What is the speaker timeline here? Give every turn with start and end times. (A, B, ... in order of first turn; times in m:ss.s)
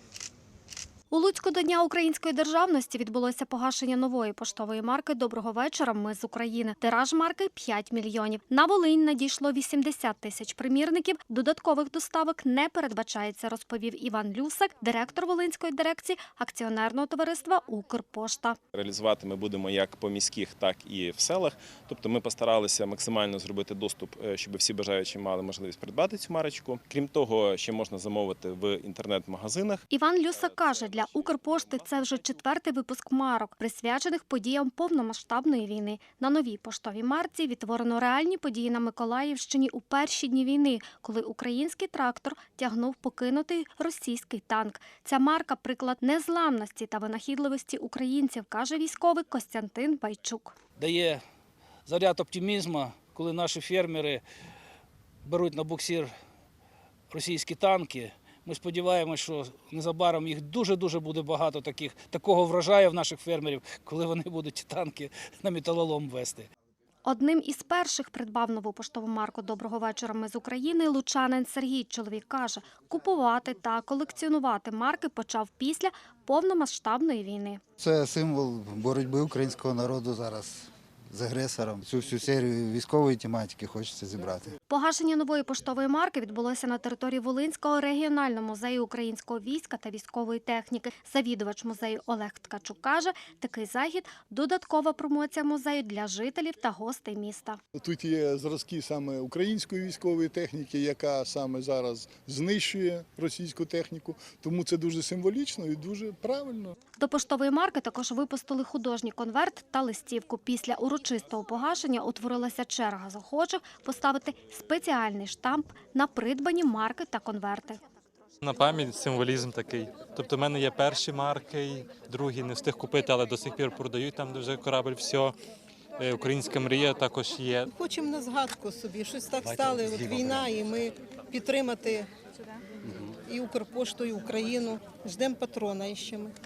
0:01.1-0:18.6 A
0:18.7-0:32.4 B
0:29.9-0:50.5 A
0:50.8-0:51.2 C
0:51.8-0:54.2 C
0:55.2-0:56.1 C
0:57.1-1:06.5 C
1:07.0-1:17.6 A
1:17.8-1:24.5 D
1:24.7-1:37.6 A
1:37.8-1:46.7 E
1:47.0-1:57.8 A
1:58.4-2:05.3 F
2:06.0-2:07.7 F
2:07.7-2:12.1 G
2:09.4-2:10.6 D
2:13.2-2:16.3 G